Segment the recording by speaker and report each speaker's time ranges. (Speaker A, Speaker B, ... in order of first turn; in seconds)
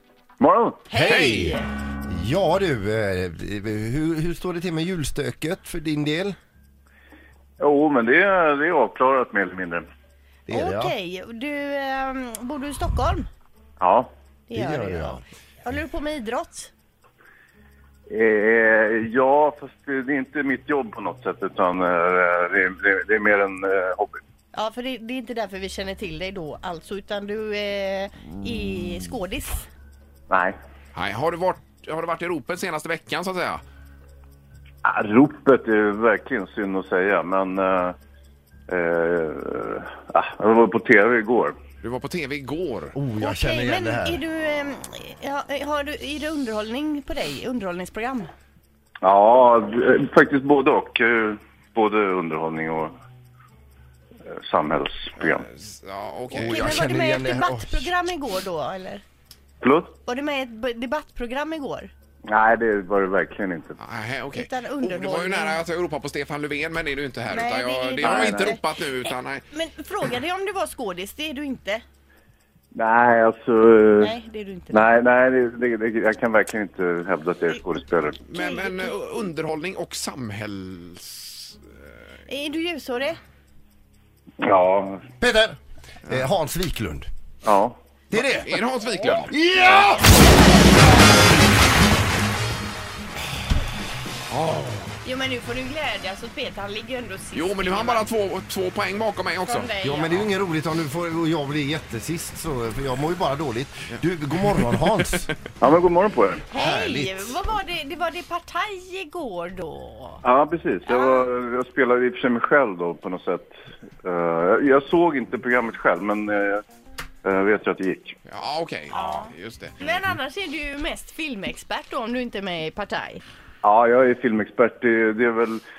Speaker A: 0.4-0.8, 7.6-9.8, 13.8-14.1, 18.1-24.2, 34.8-37.9, 38.7-41.5, 49.0-52.9, 54.3-55.5, 59.6-60.0, 62.3-63.8, 68.0-68.5, 72.7-74.1, 74.7-78.2, 84.4-85.0, 87.4-87.8, 105.6-106.5, 110.2-116.6, 117.2-118.2, 123.6-125.6
Speaker B: 0.9-1.6, 10.5-13.3, 14.5-16.7, 24.5-29.6, 43.2-48.3, 56.3-59.0, 60.0-61.9, 64.3-65.6, 67.3-68.6, 69.5-71.8, 74.0-74.9, 78.3-78.9, 82.3-83.2, 95.0-98.1, 99.4-100.2, 106.5-110.2, 110.9-111.2, 118.9-123.2
Speaker C: 0.9-6.4, 10.5-10.9, 14.5-15.2, 42.9-44.2, 56.3-57.9, 85.2-87.1, 88.1-88.6, 89.3-90.2, 99.8-105.3, 106.5-107.4
Speaker D: 30.9-33.6, 41.8-42.9, 55.2-56.9, 63.8-69.4, 78.2-81.9, 88.1-89.9, 94.3-94.8, 97.3-99.7, 118.2-119.8